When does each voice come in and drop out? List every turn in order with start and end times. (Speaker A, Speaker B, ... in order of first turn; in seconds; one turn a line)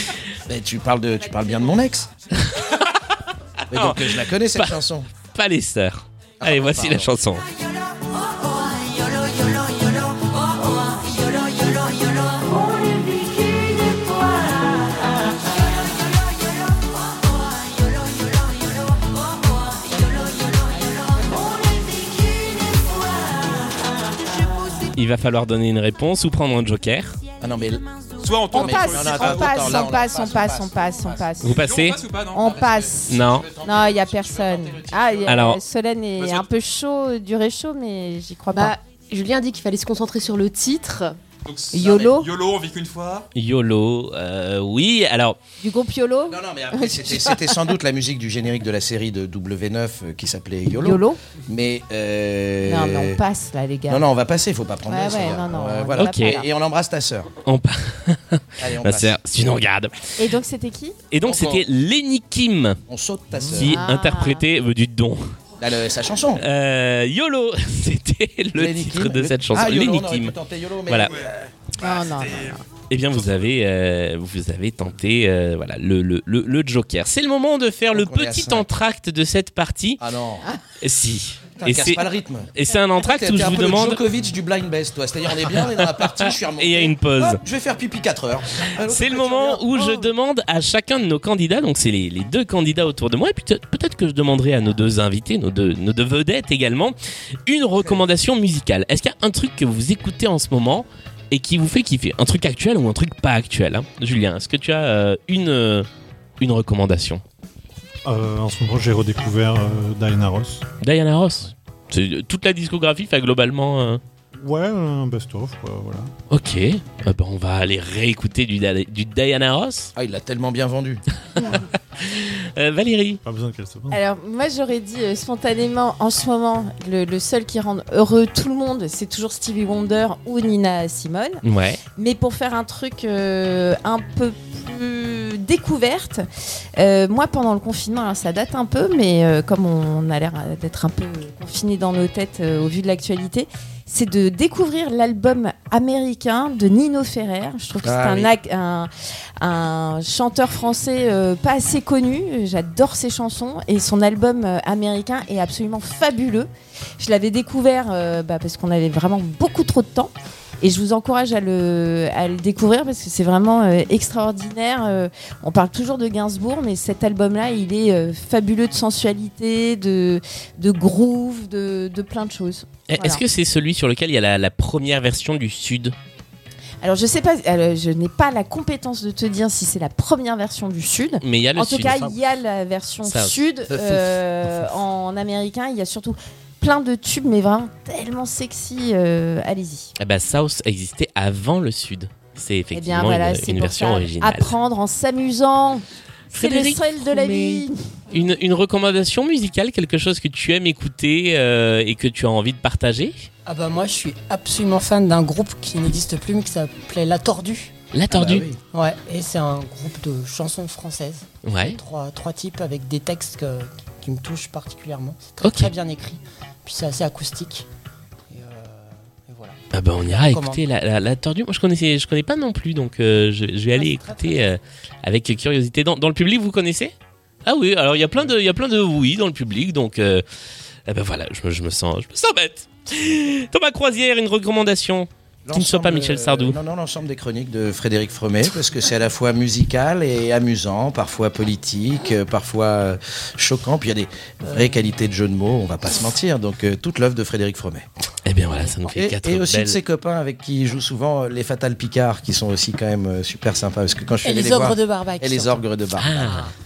Speaker A: 0.5-2.1
Speaker A: 3.7-5.1
Speaker B: 3.7-7.4
Speaker A: 6.4-7.2
Speaker B: 24.9-27.2
Speaker A: 27.4-27.8
Speaker C: 28.2-29.9
Speaker D: 28.5-31.6
Speaker A: 28.5-31.3
Speaker B: 31.4-32.0
Speaker C: 31.5-32.4
Speaker D: 32.3-38.7
Speaker A: 32.4-35.4
Speaker B: 33.1-33.5
Speaker B: 35.2-35.6
Speaker C: 36.2-36.5
Speaker E: 38.5-41.2
Speaker C: 41.4-43.3
Speaker D: 41.7-42.3
Speaker B: 43.3-45.4
Speaker D: 45.6-47.7
Speaker A: 46.3-53.2
Speaker D: 50.8-51.2
Speaker D: 52.6-54.0
Speaker A: 53.9-57.3
Speaker D: 54.9-56.5
Speaker B: 56.0-56.4
Speaker B: 57.5-59.9
Speaker A: 58.6-59.2
Speaker D: 60.2-61.0
Speaker B: 61.1-62.8
Speaker A: 61.2-61.7
Speaker A: 62.9-63.8
Speaker B: 63.5-65.2
Speaker D: 63.6-64.4
Speaker A: 65.6-66.4
Speaker B: 66.3-70.3
Speaker A: 68.5-71.3
Speaker B: 70.9-71.1
Speaker D: 71.8-72.6
Speaker C: 71.8-72.6
Speaker B: 72.9-80.0
Speaker C: 73.1-73.4
Speaker A: 77.9-78.7
Speaker A: 80.0-80.5
Speaker B: 80.8-84.0
Speaker A: 81.6-90.1
Speaker B: 85.8-87.4
Speaker B: 88.8-97.0
Speaker B: 97.5-105.9
Speaker B: 106.4-107.2
Speaker F: 108.0-110.7
Speaker B: 110.8-114.0
Speaker F: 114.4-116.1
Speaker B: 116.3-119.9
Speaker A: 120.0-121.0
Speaker B: 121.3-123.2
Speaker F: 123.2-124.0
Speaker D: 123.9-131.4
Speaker B: 131.4-131.8
Speaker D: 131.9-136.2
Speaker D: 136.8-173.2
Speaker A: 147.8-148.3
Speaker B: 172.9-175.9
Speaker D: 176.8-189.9
Speaker B: 181.2-182.1
Speaker B: 183.0-183.5
Speaker A: 183.7-184.2
Speaker B: 190.0-194.5
Speaker D: 192.7-197.8
Speaker B: 196.3-203.3
Speaker G: 203.6-207.7
Speaker B: 207.9-208.5
Speaker A: 208.1-208.6
Speaker G: 208.7-217.7
Speaker B: 211.4-211.8
Speaker B: 215.4-215.7
Speaker G: 218.3-219.6
Speaker B: 219.7-230.2
Speaker G: 223.8-224.3
Speaker B: 230.9-236.6
Speaker A: 235.4-247.8
Speaker B: 248.2-249.8
Speaker A: 248.8-256.3
Speaker G: 254.2-255.5
Speaker B: 256.0-256.5